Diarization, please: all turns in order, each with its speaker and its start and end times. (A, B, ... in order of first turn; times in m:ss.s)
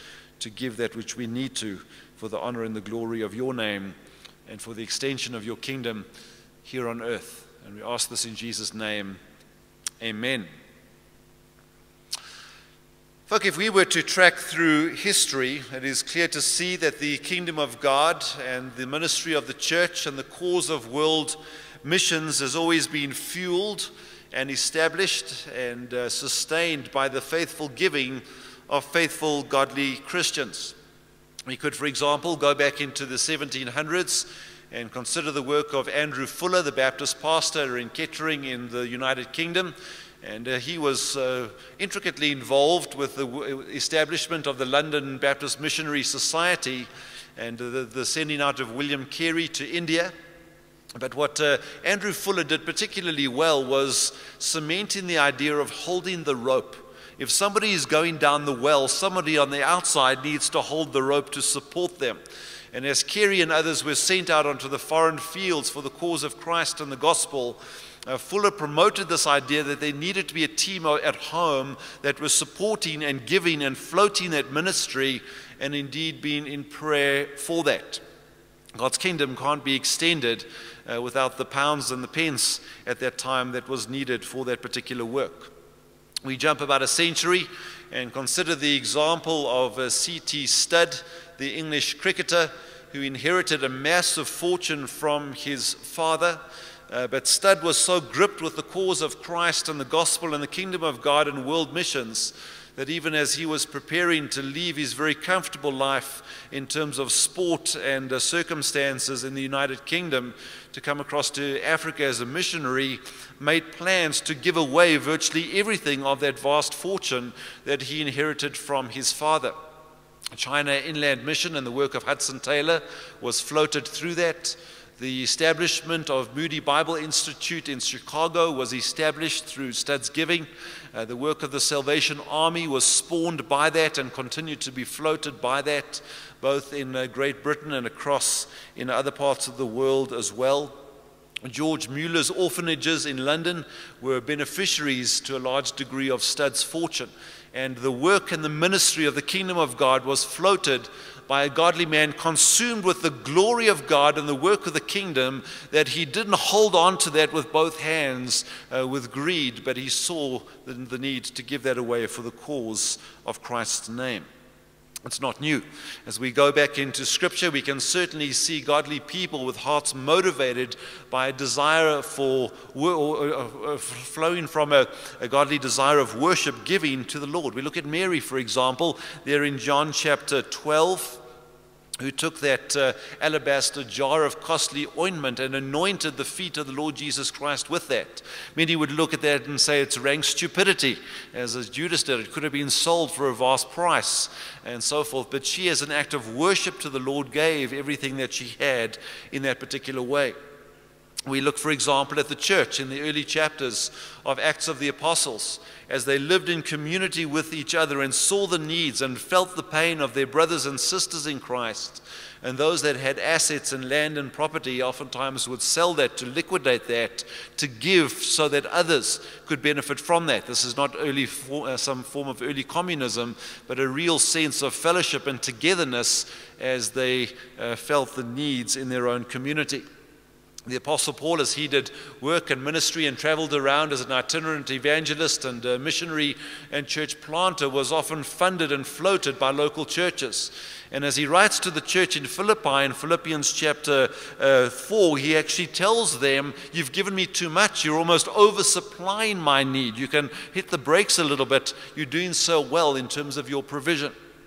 0:00.4-0:04.0 A
0:04.5-0:06.1 A
0:06.6-0:09.2 A
0:10.0-0:10.5 A
0:13.3-0:30.8 A
0:31.5-0:50.1 A
0:51.0-1:02.2 A
1:02.7-1:18.0 A
1:18.8-1:25.5 A
1:26.2-1:59.6 A
2:00.3-2:20.8 A
2:21.4-2:44.3 A
2:45.0-3:01.2 A
3:02.0-3:20.4 A
3:21.3-3:49.8 A
3:50.7-4:14.1 A